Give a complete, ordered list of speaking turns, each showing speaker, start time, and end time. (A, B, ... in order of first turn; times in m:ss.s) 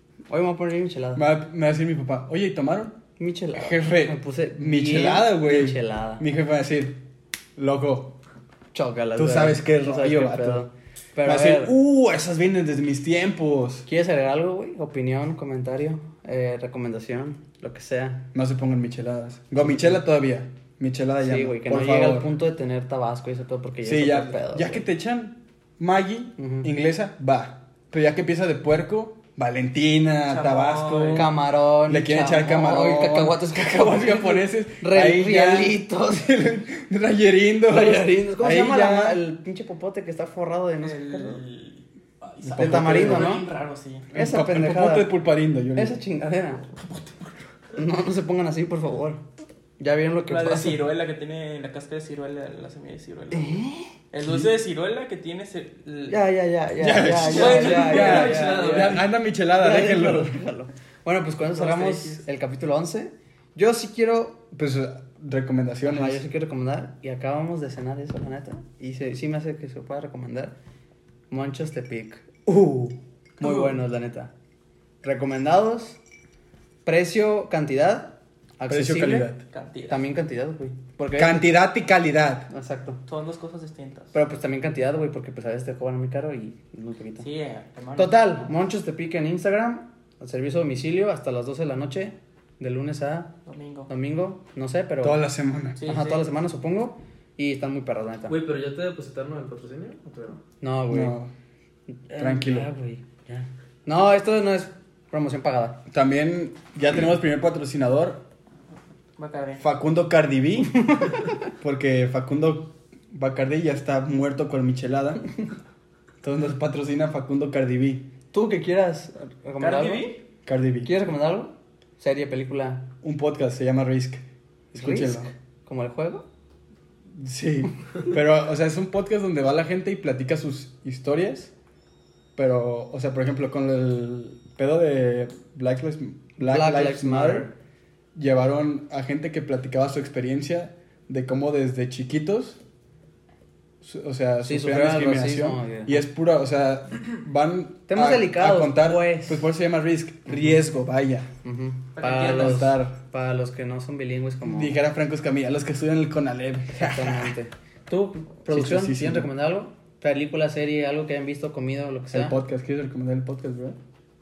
0:00.3-0:01.2 A
0:01.1-0:02.9 B
0:03.2-0:06.2 A
0:03.6-0:07.0 B
0:07.6-0:08.1 B
0:08.7-0:11.7 A
0:09.2-0:10.6 B
0:11.2-0:13.8 B
0:13.9-0:18.2 A
0:18.3-0:22.3 B
0:21.2-0:24.8 A
0:23.8-0:39.2 B
0:26.4-0:26.7 A
0:30.2-0:31.3 C
0:31.1-0:36.3 A
0:37.7-0:41.4 A
0:40.8-0:44.1 C
0:42.4-0:43.3 B
0:42.5-0:43.4 A
0:44.1-0:46.0 B
0:44.1-0:45.1 A
0:45.7-0:46.7 A
0:47.7-0:49.2 A
0:49.8-0:50.8 A
0:50.3-0:53.6 C
0:53.3-0:53.9 A
0:54.1-0:56.2 C
0:54.2-0:54.5 B
0:56.1-0:59.0 A
0:56.8-1:00.3 B
0:57.2-0:59.0 C
0:59.6-1:04.4 A
1:01.4-1:02.2 C
1:04.5-1:06.2 B
1:05.8-1:10.5 A
1:11.3-1:14.3 A
1:13.4-1:13.7 C
1:15.0-1:16.0 A
1:16.8-1:19.3 A
1:18.7-1:19.4 B
1:19.5-1:20.0 C
1:19.9-1:21.5 A
1:21.2-1:22.5 B
1:22.5-1:23.0 A
1:23.1-1:24.1 C
1:24.1-1:27.3 A
1:27.2-1:28.2 C
1:28.0-1:33.3 A
1:33.4-1:33.9 C
1:33.9-1:35.2 A
1:35.0-1:35.8 B
1:35.8-1:36.2 C
1:35.8-1:38.4 A
1:38.3-1:40.4 D
1:40.6-1:41.2 A
1:40.9-1:41.3 B
1:42.1-1:45.8 A
1:42.2-1:42.7 B
1:45.9-1:48.2 B
1:49.2-1:49.6 C
1:49.6-1:50.8 B
1:50.8-1:51.2 A
1:51.6-1:55.2 B
1:56.2-1:58.0 B
1:58.3-2:00.1 A
1:59.6-2:00.2 C
2:00.4-2:00.9 B
2:00.8-2:02.9 A
2:03.0-2:04.2 B
2:04.7-2:06.2 A
2:04.7-2:05.3 B
2:07.1-2:11.5 B
2:12.4-2:17.5 B
2:16.4-2:17.5 A
2:18.1-2:22.6 B
2:23.8-2:31.3 B
2:24.4-2:26.0 A
2:27.9-2:29.4 A
2:31.4-2:34.8 A
2:32.0-2:32.7 C
2:32.2-2:33.0 B
2:34.4-2:37.3 B
2:36.7-2:42.4 A
2:38.5-2:39.3 B
2:42.1-2:43.8 B